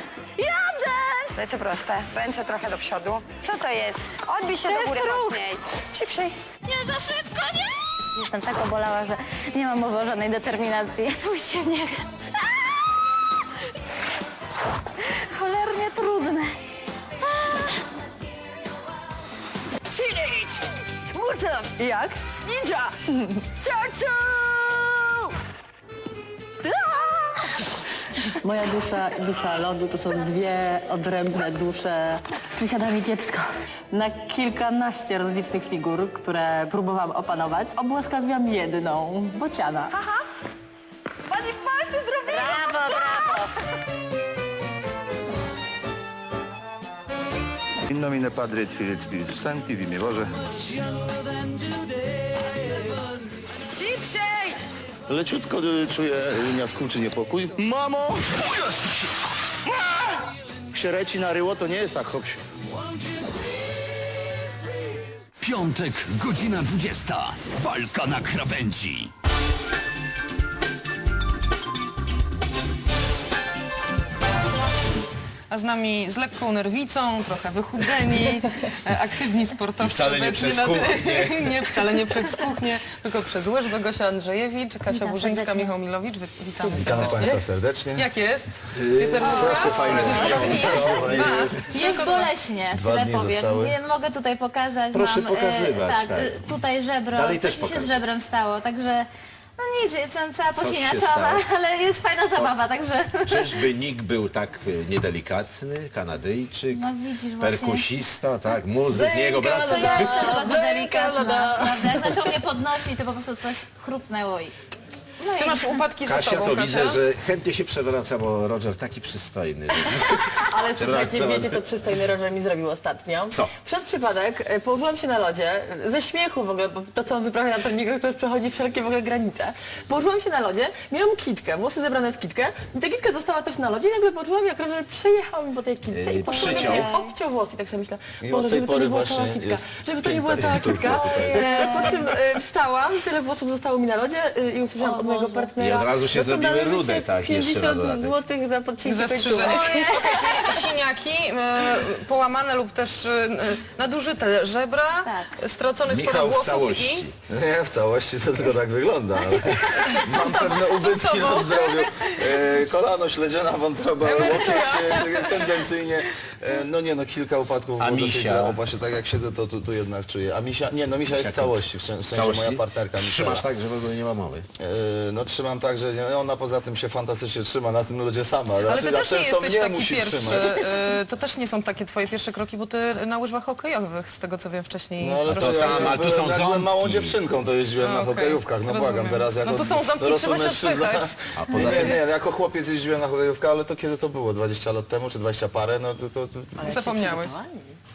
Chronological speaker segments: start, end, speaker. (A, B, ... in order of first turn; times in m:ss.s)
0:00.4-0:01.4 A
0:01.4-0:06.4 B
0:04.6-0:05.5 A
0:06.6-0:12.1 A
0:15.0-0:16.5 A
0:19.9-0:25.2 C
0:26.6-0:27.4 C
0:28.4-0:40.2 C
0:41.3-0:43.2 C
0:42.3-0:43.5 A
0:47.9-0:50.4 D
0:55.1-0:58.3 D
1:00.7-1:02.4 D
1:05.4-1:09.1 E
1:15.5-1:32.3 F
1:19.8-1:21.5 G
1:24.9-1:25.7 A
1:26.6-1:27.4 C
1:26.7-1:28.1 D
1:28.7-1:31.7 G
1:29.2-1:31.3 D
1:29.3-1:43.6 A
1:32.7-1:33.8 D
1:34.9-1:36.6 G
1:37.1-1:38.0 G
1:40.5-1:41.4 G
1:43.2-1:50.2 G
1:46.7-1:47.8 A
1:48.9-1:52.4 C
1:49.5-1:54.5 A
1:55.2-1:55.8 A
1:55.4-1:57.0 F
1:56.0-2:01.7 G
2:00.3-2:30.4 C
2:15.9-2:16.9 G
2:16.2-2:17.1 A
2:18.2-2:21.9 D
2:20.3-2:21.3 G
2:21.4-2:22.0 A
2:24.8-2:25.5 A
2:25.6-2:28.2 G
2:28.8-2:37.1 F
2:29.4-2:30.2 A
2:35.0-2:35.3 A
2:35.9-2:37.1 G
2:37.3-2:53.5 D
2:39.4-2:42.4 F
2:44.0-2:45.7 F
2:47.8-2:48.6 G
2:51.1-2:54.5 G
2:54.6-3:00.6 D
2:58.6-3:06.0 F
3:05.0-3:16.7 D
3:05.3-3:07.2 G
3:07.8-3:11.9 F
3:11.3-3:12.0 G
3:16.6-3:17.8 C
3:16.6-3:17.4 F